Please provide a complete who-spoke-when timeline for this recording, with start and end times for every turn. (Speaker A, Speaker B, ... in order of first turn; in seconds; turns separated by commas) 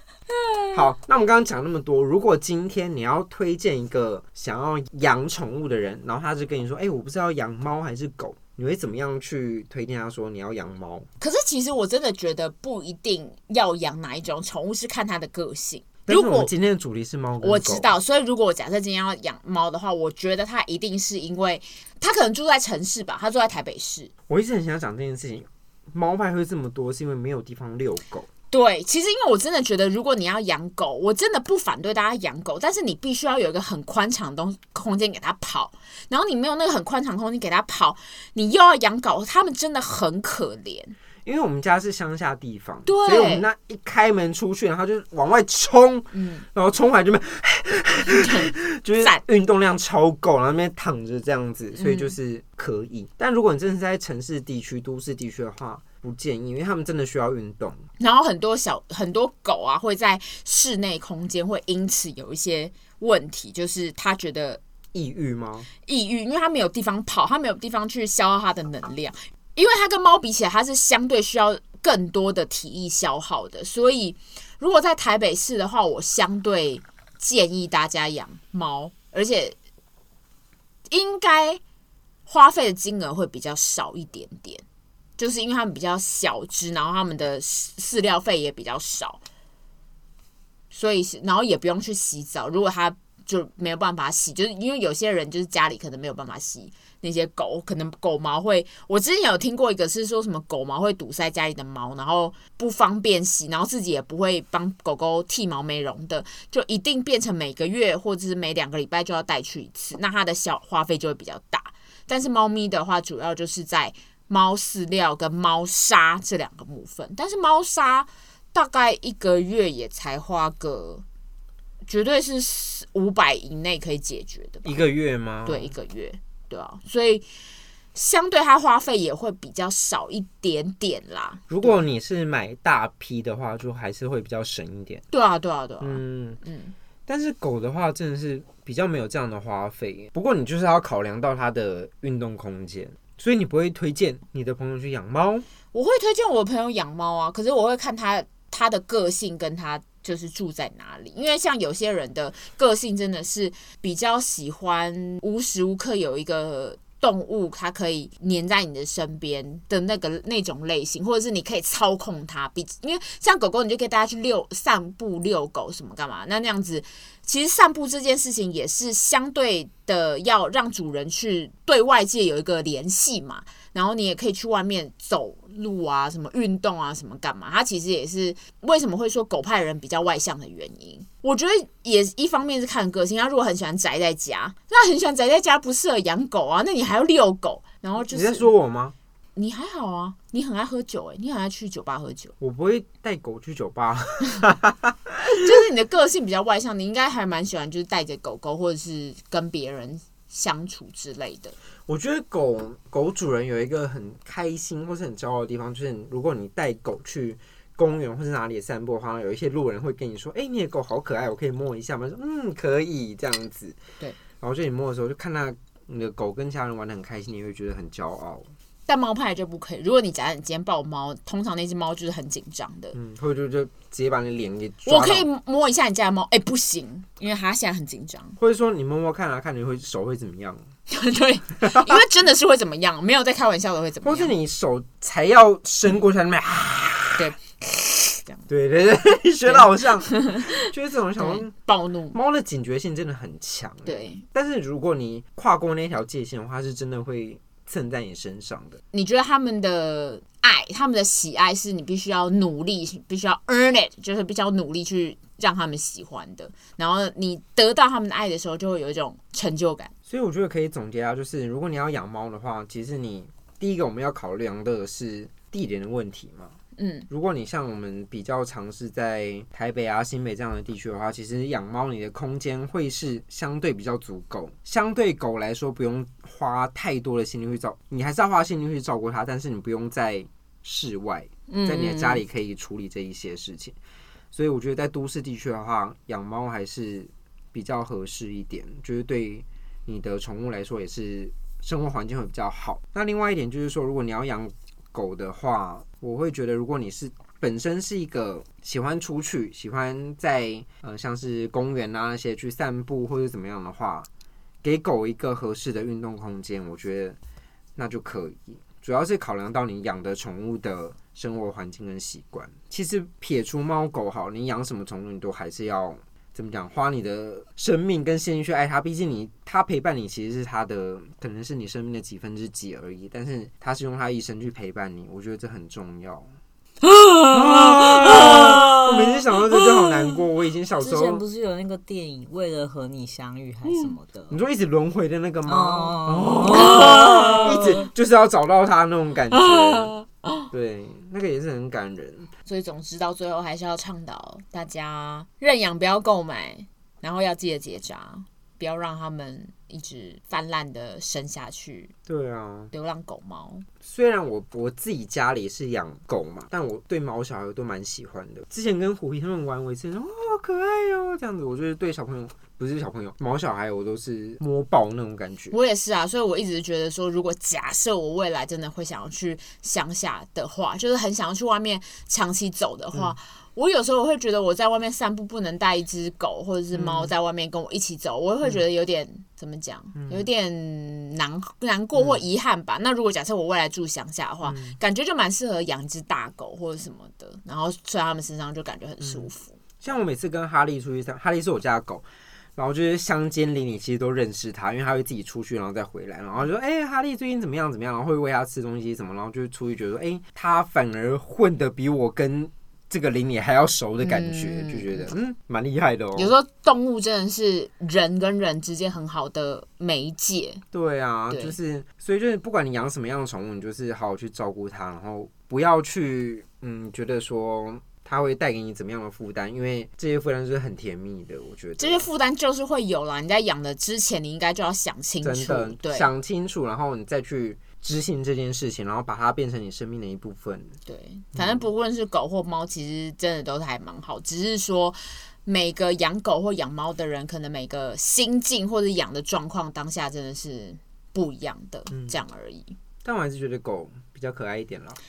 Speaker A: 0.7-11.1, Speaker B: 11.2-16.5, Speaker A: 16.1-17.9, Speaker B: 17.4-24.1, Speaker A: 24.3-28.3, Speaker B: 28.5-41.0, Speaker A: 41.2-57.8, Speaker B: 42.9-43.4, Speaker B: 46.1-46.4, Speaker B: 48.2-49.2, Speaker B: 51.8-52.1, Speaker B: 58.0-64.6, Speaker A: 64.9-65.7, Speaker B: 65.8-79.5, Speaker B: 80.9-81.6, Speaker B: 82.2-84.6, Speaker B: 85.2-89.2, Speaker B: 90.7-121.0, Speaker B: 121.9-124.8, Speaker A: 124.6-125.7, Speaker B: 125.5-127.2, Speaker B: 127.9-131.8, Speaker A: 131.5-135.0, Speaker B: 135.1-136.7, Speaker A: 135.8-136.4, Speaker A: 137.1-145.4, Speaker B: 145.7-188.5, Speaker A: 188.1-188.9, Speaker B: 189.3-192.3, Speaker A: 192.4-195.5, Speaker B: 195.2-201.5, Speaker A: 201.9-213.8, Speaker A: 214.4-218.5, Speaker B: 218.9-222.9, Speaker A: 222.9-225.3, Speaker B: 224.8-228.4, Speaker A: 228.4-230.6, Speaker B: 230.9-234.3, Speaker A: 231.6-232.0, Speaker A: 234.0-237.3, Speaker B: 237.2-238.4, Speaker A: 238.5-241.5, Speaker B: 239.4-240.6, Speaker B: 241.2-242.2, Speaker A: 242.1-248.8, Speaker B: 243.8-244.2, Speaker B: 248.9-259.9, Speaker A: 260.1-266.5, Speaker B: 266.8-267.1, Speaker A: 267.1-283.8, Speaker B: 281.5-282.2, Speaker A: 284.3-304.1, Speaker A: 304.6-307.2, Speaker A: 307.8-326.3, Speaker B: 327.0-327.3, Speaker A: 327.3-331.2, Speaker B: 328.2-328.5, Speaker C: 330.8-334.4, Speaker A: 334.3-339.9, Speaker C: 335.5-337.9, Speaker B: 336.5-337.8, Speaker B: 339.3-340.5, Speaker A: 340.5-342.3, Speaker B: 342.4-351.9, Speaker A: 352.1-352.7, Speaker B: 352.7-353.7, Speaker A: 353.8-365.5, Speaker B: 365.5-389.6, Speaker A: 376.7-377.1, Speaker A: 379.9-380.3, Speaker A: 381.9-382.2, Speaker A: 384.4-384.8, Speaker A: 389.8-392.0, Speaker A: 392.6-406.3, Speaker B: 404.0-405.1, Speaker B: 406.1-410.6, Speaker A: 410.7-422.1, Speaker B: 421.8-426.1, Speaker A: 425.2-430.7, Speaker B: 430.9-442.7, Speaker A: 431.4-431.6, Speaker A: 441.9-442.2, Speaker A: 443.0-445.0